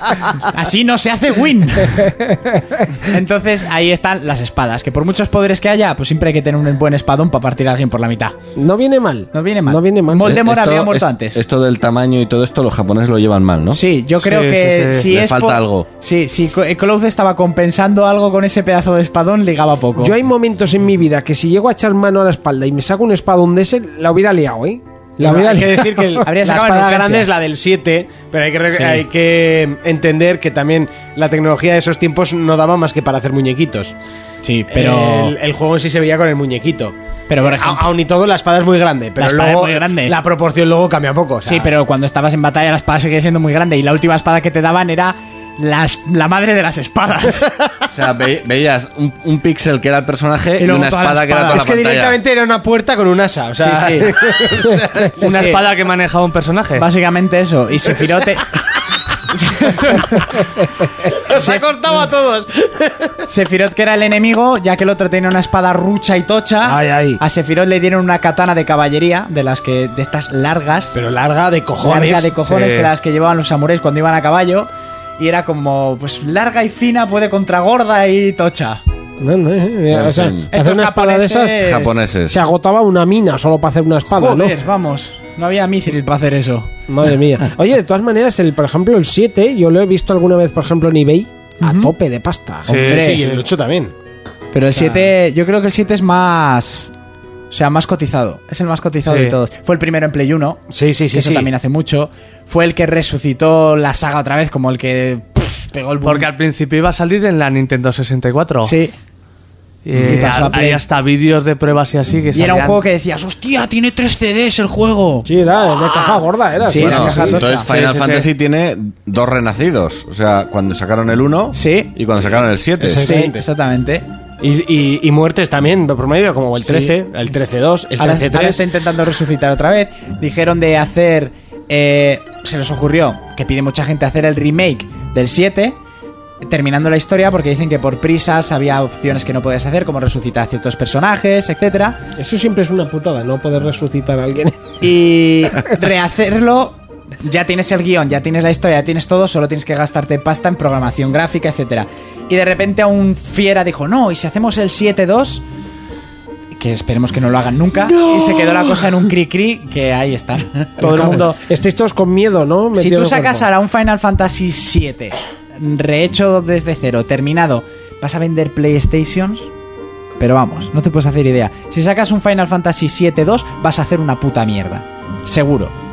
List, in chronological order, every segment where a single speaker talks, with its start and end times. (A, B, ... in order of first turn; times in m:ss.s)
0:00.4-0:02.1 A
0:02.0-0:02.8 B
0:03.1-0:08.4 A
0:08.6-0:10.3 B
0:09.3-0:11.4 A
0:10.2-0:13.8 C
0:13.7-0:20.1 A
0:14.2-0:15.0 D
0:15.0-0:15.9 C
0:20.0-0:26.2 B
0:25.2-0:33.9 E
0:26.2-0:27.3 A
0:28.7-0:29.0 A
0:34.4-0:35.3 A
0:34.7-0:41.7 E
0:37.3-0:37.8 A
0:39.2-0:40.1 A
0:41.4-0:47.5 A
0:47.9-0:52.2 C
0:50.6-0:51.6 A
0:51.5-0:55.4 E
0:53.6-0:54.0 A
0:55.2-0:56.8 D
0:55.2-0:55.6 A
0:56.8-0:58.5 A
0:57.9-0:58.3 E
0:59.3-1:00.4 A
1:01.1-1:03.2 E
1:01.3-1:01.6 A
1:03.3-1:11.0 A
1:06.6-1:07.2 B
1:10.9-1:12.3 E
1:11.8-1:18.8 A
1:12.4-1:12.9 D
1:19.2-1:21.7 B
1:19.9-1:20.5 C
1:20.5-1:22.0 A
1:21.6-1:22.4 C
1:22.3-1:24.6 B
1:24.1-1:26.7 A
1:26.9-1:32.8 B
1:31.6-1:31.9 A
1:32.7-1:33.4 D
1:32.7-1:33.2 A
1:32.8-1:33.9 E
1:34.5-1:36.9 A
1:37.5-1:46.3 A
1:39.0-1:39.4 D
1:40.7-1:41.5 E
1:46.0-1:48.7 D
1:48.6-1:48.9 A
1:49.8-1:52.8 D
1:50.0-1:50.3 C
1:50.1-1:50.8 A
1:52.3-1:55.3 A
1:55.2-1:57.4 B
1:56.6-1:57.7 A
1:56.7-2:03.1 C
1:57.6-1:58.3 D
2:01.5-2:01.9 A
2:02.8-2:03.4 E
2:02.9-2:04.0 A
2:04.4-2:08.6 E
2:06.6-2:06.9 A
2:08.0-2:15.8 A
2:16.4-2:22.0 A
2:22.2-2:24.7 B
2:24.8-2:35.4 A
2:36.6-2:41.4 A
2:40.8-2:43.5 B
2:42.8-2:49.5 A
2:50.2-2:55.7 A